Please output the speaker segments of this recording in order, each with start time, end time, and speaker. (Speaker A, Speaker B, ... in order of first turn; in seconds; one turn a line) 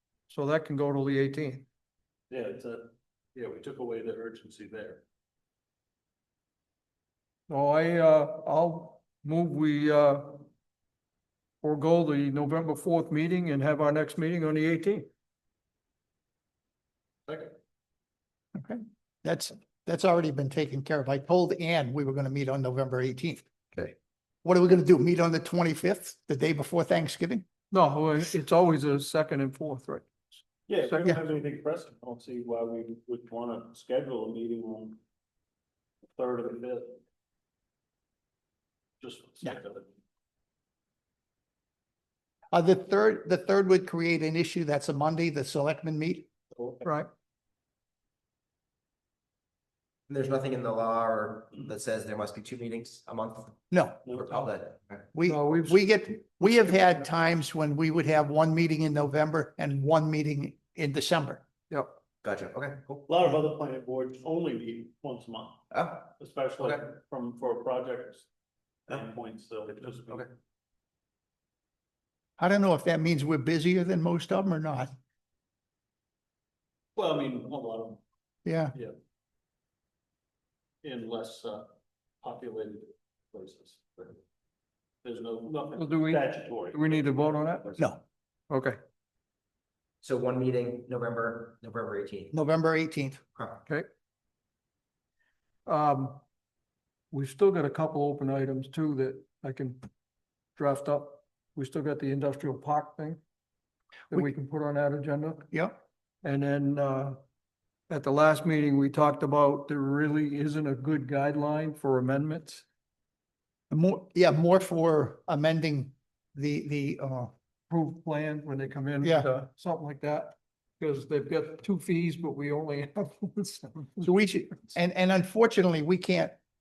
Speaker A: 0.3-1.7
Speaker B: 2.3-5.0
Speaker A: 7.5-10.5
Speaker A: 11.6-15.1
Speaker B: 17.3-17.5
Speaker C: 18.6-23.9
Speaker C: 24.4-27.4
Speaker A: 27.7-30.3
Speaker B: 30.7-35.0
Speaker A: 30.9-31.1
Speaker B: 36.1-37.0
Speaker B: 39.0-39.9
Speaker C: 42.5-46.3
Speaker B: 46.5-46.9
Speaker D: 50.1-55.0
Speaker C: 53.7-54.0
Speaker B: 54.1-54.5
Speaker C: 55.1-61.4
Speaker A: 55.2-55.8
Speaker D: 62.2-63.1
Speaker B: 63.1-68.3
Speaker D: 65.7-66.1
Speaker B: 68.9-70.3
Speaker C: 72.4-74.9
Speaker B: 77.0-78.0
Speaker C: 78.5-78.8
Speaker B: 80.8-81.7
Speaker B: 82.2-84.2
Speaker B: 85.0-87.0
Speaker A: 85.8-87.8
Speaker A: 88.5-88.8
Speaker D: 90.0-92.3
Speaker C: 92.3-93.2
Speaker D: 93.3-93.6
Speaker A: 95.7-96.2
Speaker A: 97.1-99.8
Speaker A: 100.6-103.2
Speaker A: 104.1-105.5
Speaker C: 105.5-105.8
Speaker A: 106.2-107.2
Speaker A: 107.9-112.7
Speaker C: 113.7-117.3
Speaker A: 117.7-124.1
Speaker C: 119.0-119.3
Speaker C: 124.0-126.4